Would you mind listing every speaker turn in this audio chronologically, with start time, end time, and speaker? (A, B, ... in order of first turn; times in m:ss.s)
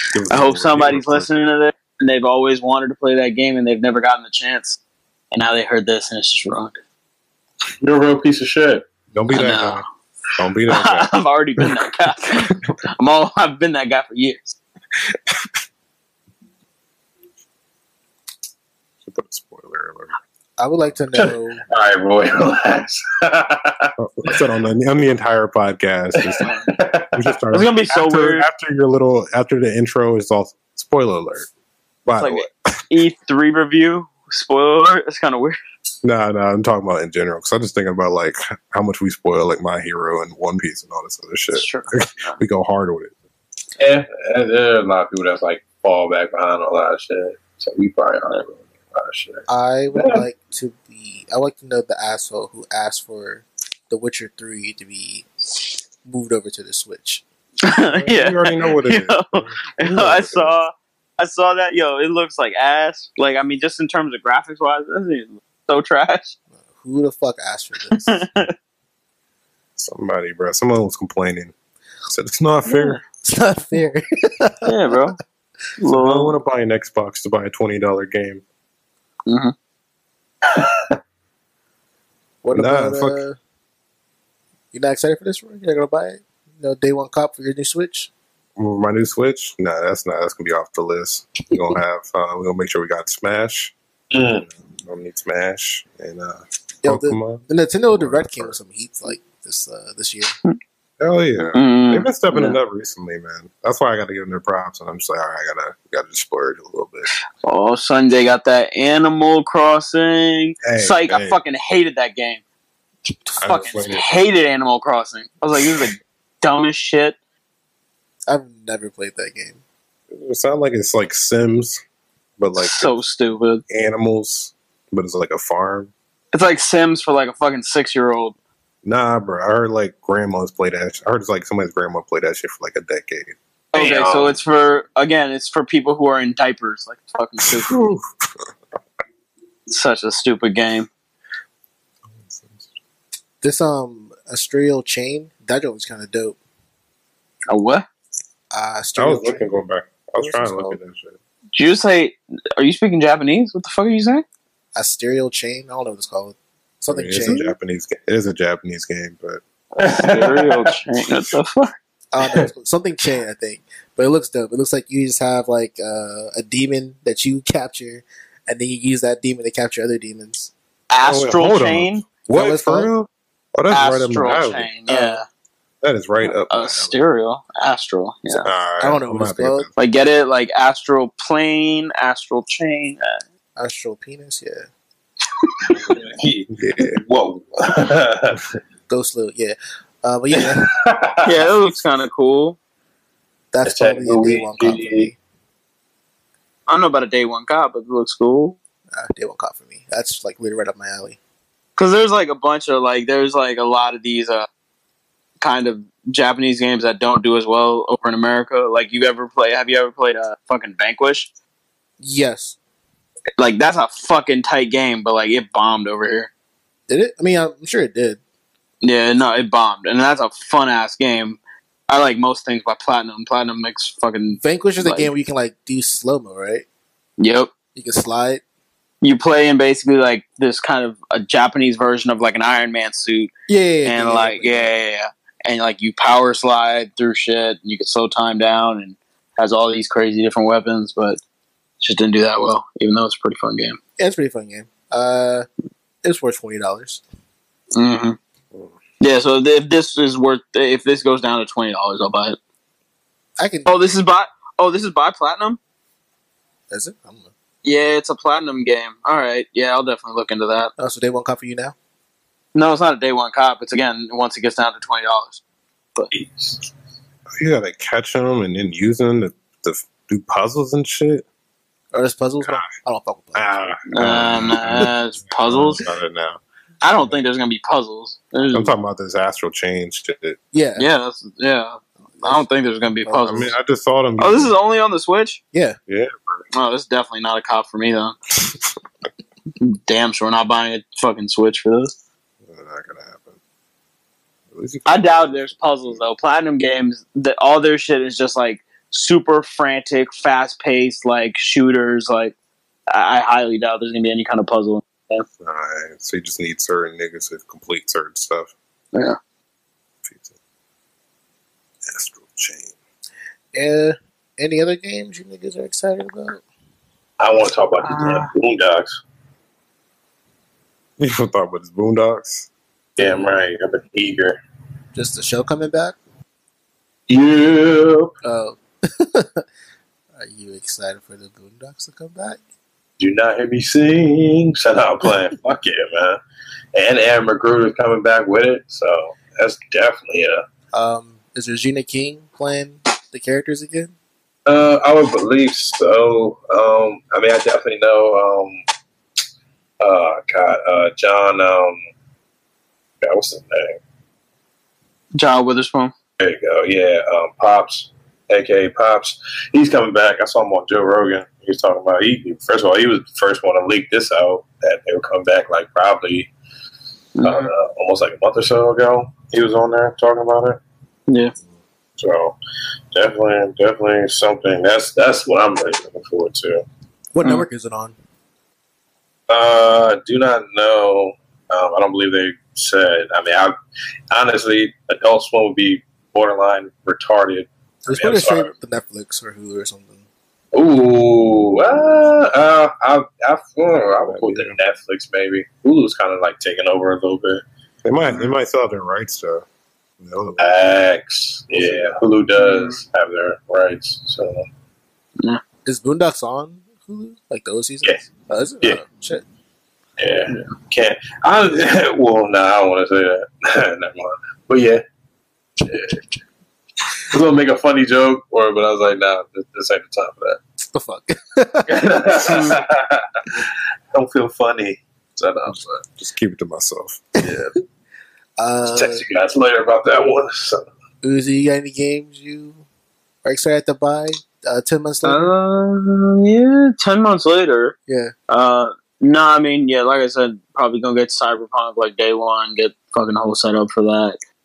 0:00.1-0:01.3 A
0:00.3-0:04.8 B
0:05.3-0:06.8 B
0:07.8-0:08.9 C
0:09.1-0:09.8 A
0:09.3-0:09.8 B
0:10.4-0:11.7 A
0:10.7-0:14.6 B
0:15.1-0:15.5 A
0:19.0-0:20.1 A
0:20.6-0:21.6 D
0:21.1-0:24.3 C
0:24.0-0:26.5 A
0:26.2-0:27.3 C
0:26.4-0:26.7 B
0:27.1-0:31.5 A
0:27.5-0:28.4 B
0:32.0-0:32.8 A
0:32.2-0:35.6 B
0:36.0-0:43.1 A
0:41.5-0:42.4 B
0:43.8-0:50.2 C
0:49.5-0:55.3 D
0:56.0-0:57.2 D
0:57.6-1:06.3 B
0:57.9-1:00.5 A
1:06.6-1:08.2 D
1:08.0-1:08.5 B
1:09.8-1:11.5 A
1:12.1-1:13.0 A
1:12.7-1:13.0 B
1:13.2-1:14.8 D
1:14.6-1:15.2 B
1:15.8-1:16.4 B
1:15.9-1:18.4 A
1:19.3-1:19.5 B
1:20.4-1:21.0 C
1:22.4-1:23.4 D
1:22.5-1:23.2 A
1:24.7-1:28.1 D
1:28.6-1:33.7 A
1:34.1-1:34.4 C
1:34.3-1:38.6 A
1:36.8-1:40.3 D
1:41.0-1:47.1 A
1:41.5-1:42.6 B
1:47.4-1:52.4 B
1:50.6-1:51.4 A
1:53.4-1:54.2 A
1:53.4-1:57.2 B
1:58.3-1:59.6 D
2:00.1-2:01.8 A
2:02.4-2:02.9 A
2:02.6-2:03.6 B
2:03.7-2:05.9 A
2:06.3-2:08.4 B
2:08.8-2:13.3 A
2:13.7-2:17.8 B
2:13.7-2:14.4 C
2:17.4-2:18.4 A
2:19.7-2:20.9 B
2:22.1-2:22.7 A
2:23.4-2:26.4 D
2:27.5-2:27.9 B
2:28.5-2:29.5 D
2:29.0-2:31.2 A
2:30.2-2:30.8 D
2:31.5-2:34.2 B
2:34.7-2:37.5 D
2:36.9-2:39.4 A
2:37.2-2:37.5 B
2:39.8-2:41.7 B
2:39.8-2:40.7 C
2:42.1-2:50.5 D
2:42.2-2:42.5 C
2:50.9-2:52.0 B
2:51.0-2:54.9 A
2:52.3-2:52.9 D
2:53.7-2:55.2 B
2:54.9-2:55.2 D
2:55.8-2:57.0 A
2:56.2-2:58.5 B
2:58.4-2:59.7 A
2:58.8-2:59.7 D
2:59.8-3:03.2 B
3:03.6-3:04.7 D
3:05.6-3:08.4 C
3:06.5-3:07.0 A
3:08.9-3:10.7 D
3:10.4-3:11.2 C
3:11.2-3:12.6 B
3:13.5-3:15.2 D
3:13.6-3:15.1 C
3:16.7-3:18.6 B
3:18.9-3:21.2 D
3:21.8-3:24.5 B
3:25.4-3:31.3 B
3:32.0-3:32.6 D
3:33.4-3:36.3 B
3:36.9-3:38.2 D
3:38.8-3:45.1 B
3:44.4-3:46.6 D
3:47.2-3:47.5 B
3:47.7-3:48.4 D
3:49.0-3:53.3 B
3:53.5-3:54.7 D
3:53.8-4:01.2 B
4:01.8-4:03.8 B
4:04.0-4:05.5 D
4:06.0-4:07.0 D
4:07.8-4:08.2 B
4:09.0-4:12.4 B
4:13.4-4:13.7 D
4:13.6-4:15.6 B
4:16.7-4:17.3 D
4:17.6-4:20.7 B
4:20.8-4:21.7 D
4:22.5-4:25.4 B
4:26.1-4:26.6 C
4:27.4-4:31.2 A
4:31.9-4:33.8 D
4:32.4-4:32.7 A
4:33.3-4:36.4 A
4:33.9-4:35.8 B
4:36.8-4:38.7 B
4:38.5-4:40.4 A
4:40.5-4:40.9 D
4:40.8-4:43.5 B
4:42.2-4:42.4 D
4:43.0-4:43.4 D
4:43.2-4:44.5 A
4:44.2-4:45.4 B
4:45.5-4:45.8 D
4:45.9-4:46.4 A
4:46.5-4:48.2 B
4:49.6-4:51.9 B
4:52.4-4:53.4 A
4:54.5-4:56.0 A
4:54.8-5:02.3 B
5:02.9-5:05.2 B
5:05.4-5:08.5 A
5:10.0-5:10.3 A
5:11.8-5:12.7 A
5:13.5-5:16.4 D
5:17.2-5:19.0 C
5:17.8-5:18.3 B
5:21.0-5:22.5 A
5:23.0-5:24.4 C
5:24.9-5:25.9 D
5:27.1-5:28.1 C
5:28.2-5:29.4 D
5:30.2-5:32.4 D
5:33.0-5:36.2 C
5:36.7-5:40.4 C
5:40.7-5:43.9 D
5:44.5-5:48.6 C
5:49.8-5:51.8 C
5:53.0-5:53.8 C
5:55.1-5:55.9 B
5:56.2-6:06.3 C
6:07.2-6:07.5 B
6:07.2-6:10.6 C
6:11.1-6:11.3 B
6:12.0-6:12.3 C
6:12.9-6:16.6 C
6:17.1-6:17.9 D
6:19.3-6:23.5 C
6:24.1-6:28.5 C
6:27.8-6:30.0 D
6:30.5-6:37.4 C
6:34.0-6:34.6 A
6:37.8-6:39.4 A
6:38.0-6:38.3 B
6:40.0-6:40.6 A
6:40.4-6:44.4 C
6:41.5-6:42.0 A
6:42.4-6:42.8 B
6:45.6-6:49.2 D
6:50.0-6:54.8 C
6:55.6-6:56.0 C
6:57.0-7:00.4 C
7:00.7-7:02.4 D
7:01.7-7:05.8 C
7:02.2-7:02.6 B
7:05.5-7:07.0 A
7:07.2-7:07.4 D
7:07.2-7:07.5 C
7:08.4-7:09.0 D
7:08.6-7:10.6 C
7:11.0-7:12.6 D
7:13.2-7:15.3 D
7:15.0-7:17.8 B
7:17.9-7:18.1 D
7:18.3-7:24.2 B